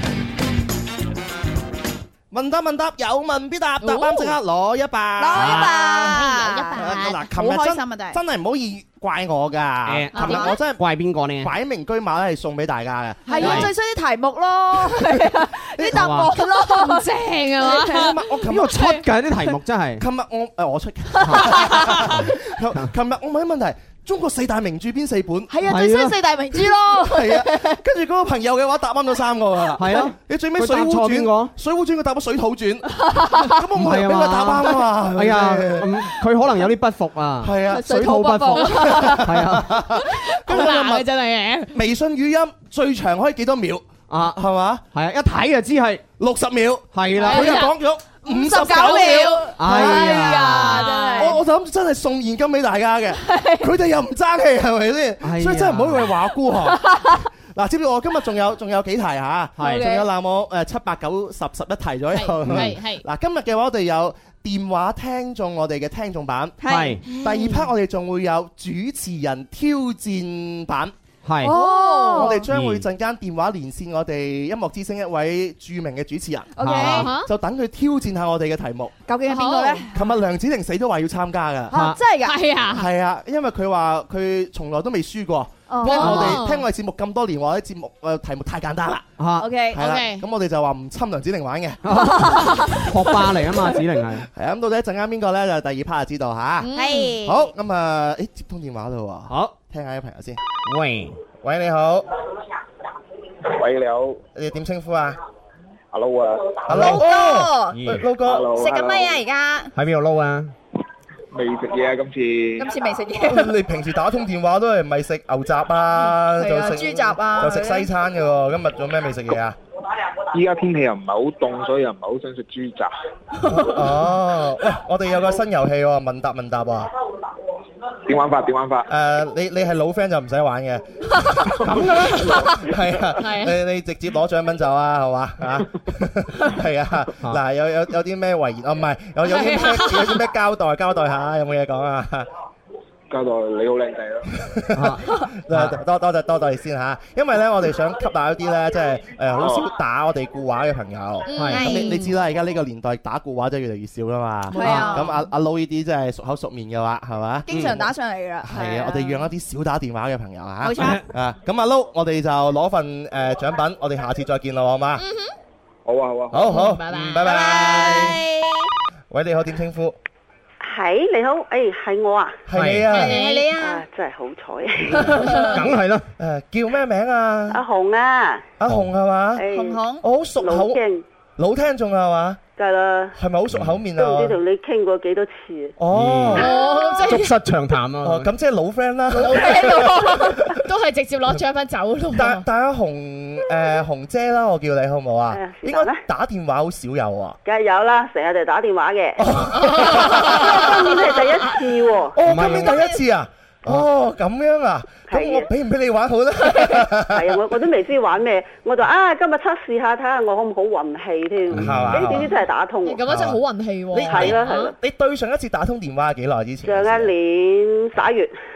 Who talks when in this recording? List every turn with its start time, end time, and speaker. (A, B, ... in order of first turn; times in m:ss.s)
0:02.3-0:10.8 A
0:03.8-0:04.4 B
0:05.2-0:08.2 C
0:05.4-0:05.7 D
0:06.1-0:07.2 B
0:09.8-0:11.5 D
0:10.1-0:10.6 B
0:10.1-0:10.6 C
0:11.4-0:13.7 A
0:13.2-0:18.1 C
0:13.4-0:13.7 D
0:15.8-0:16.1 A
0:15.9-0:16.3 D
0:16.4-0:19.0 B
0:17.9-0:18.8 A
0:18.5-0:20.0 D
0:20.0-0:25.5 A
0:21.2-0:22.9 D
0:21.2-0:21.6 C
0:25.5-0:27.8 C
0:25.6-0:26.2 D
0:26.5-0:36.0 A
0:29.8-0:31.5 D
0:33.0-0:33.5 C
0:33.7-0:39.8 D
0:37.4-0:37.9 A
0:37.7-0:39.3 C
0:38.9-0:41.0 A
0:40.0-0:41.8 B
0:41.7-0:44.8 A
0:44.1-0:44.4 D
0:44.9-0:46.0 D
0:46.2-1:06.6 A
0:46.9-0:47.5 D
0:47.2-0:47.7 B
0:47.2-0:47.6 C
0:48.2-0:51.4 C
0:48.8-0:51.4 B
0:49.6-0:50.8 D
0:53.2-0:53.7 C
0:55.2-0:56.1 D
0:59.6-0:59.9 D
0:59.6-1:00.0 C
1:02.1-1:03.0 B
1:02.4-1:02.7 D
1:06.6-1:07.3 C
1:06.7-1:07.0 D
1:07.1-1:10.9 A
1:07.2-1:07.6 B
1:11.2-1:11.5 D
1:11.4-1:12.4 C
1:11.4-1:12.4 B
1:12.1-1:18.9 A
1:12.5-1:12.9 D
1:16.5-1:17.1 C
1:16.6-1:17.1 D
1:16.9-1:17.3 B
1:19.0-1:20.0 C
1:19.3-1:19.8 B
1:19.9-1:21.7 A
1:21.7-1:22.4 C
1:21.7-1:22.0 D
1:22.2-1:22.9 B
1:22.7-1:29.0 A
1:25.7-1:26.2 C
1:25.8-1:26.7 B
1:26.0-1:26.4 D
1:29.2-1:29.5 D
1:29.4-1:29.8 C
1:29.7-1:31.8 A
1:29.8-1:30.2 B
1:31.8-1:34.3 D
1:32.0-1:32.9 C
1:34.3-1:36.7 A
1:36.6-1:37.2 B
1:36.7-1:37.5 C
1:37.2-1:40.4 A
1:39.3-1:39.5 D
1:40.6-1:41.2 D
1:41.4-1:42.1 A
1:43.5-1:44.2 E
1:44.3-1:45.2 A
1:45.9-1:46.8 E
1:46.7-1:48.5 A
1:46.7-1:47.0 D
1:46.7-1:47.8 C
1:47.7-1:48.1 D
1:48.2-1:49.1 E
1:48.5-1:49.7 C
1:49.7-1:50.5 D
1:51.3-1:52.7 E
1:52.6-1:53.5 C
1:53.2-1:59.6 A
1:56.3-1:57.9 C
2:00.3-2:02.9 E
2:03.5-2:06.9 A
2:08.1-2:08.9 E
2:08.9-2:10.8 A
2:11.4-2:22.3 A
2:11.6-2:12.2 D
2:13.2-2:13.6 B
2:19.2-2:20.2 B
2:23.1-2:24.3 E
2:24.4-2:37.8 A
2:24.7-2:25.8 D
2:29.4-2:29.7 E
2:31.3-2:32.1 B
2:31.3-2:31.6 D
2:31.5-2:32.0 C
2:34.5-2:35.2 C
2:34.6-2:35.0 D
2:37.5-2:39.2 C
2:37.5-2:37.8 D
2:38.4-2:45.0 A
2:40.6-2:41.0 C
2:40.8-2:41.0 D
2:45.0-2:45.3 B
2:45.8-2:46.6 E
2:46.3-2:48.2 A
2:46.4-2:47.5 B
2:47.2-2:48.7 C
2:49.1-2:50.0 A
2:50.6-2:52.4 F
2:52.5-2:53.2 A
2:52.5-2:52.9 D
2:52.9-2:53.5 B
2:52.9-2:53.8 C
2:53.5-2:55.2 F
2:55.0-2:55.5 C
2:55.5-2:56.1 D
2:56.2-2:57.6 A
2:57.5-2:58.5 F
2:58.6-2:59.4 A
2:59.4-2:59.8 F
2:59.5-3:00.0 C
3:00.0-3:00.8 A
3:00.4-3:01.0 F
3:01.4-3:02.4 A
3:02.6-3:03.2 F
3:03.2-3:04.4 A
3:03.5-3:03.8 D
3:04.0-3:05.8 F
3:05.8-3:06.6 A
3:05.9-3:08.3 D
3:06.3-3:07.3 B
3:08.0-3:10.6 A
3:09.1-3:12.4 B
3:09.2-3:09.9 C
3:12.1-3:17.4 A
3:15.3-3:16.0 F
3:17.4-3:19.4 F
3:19.2-3:21.2 A
3:20.2-3:22.2 F
3:22.1-3:27.3 A
3:22.2-3:22.8 D
3:25.1-3:25.5 F
3:27.1-3:33.1 F
3:31.5-3:32.2 D
3:31.5-3:32.3 A
3:32.8-3:34.7 B
3:33.0-3:33.4 A
3:33.9-3:37.1 A
3:34.1-3:34.7 F
3:36.6-3:38.3 F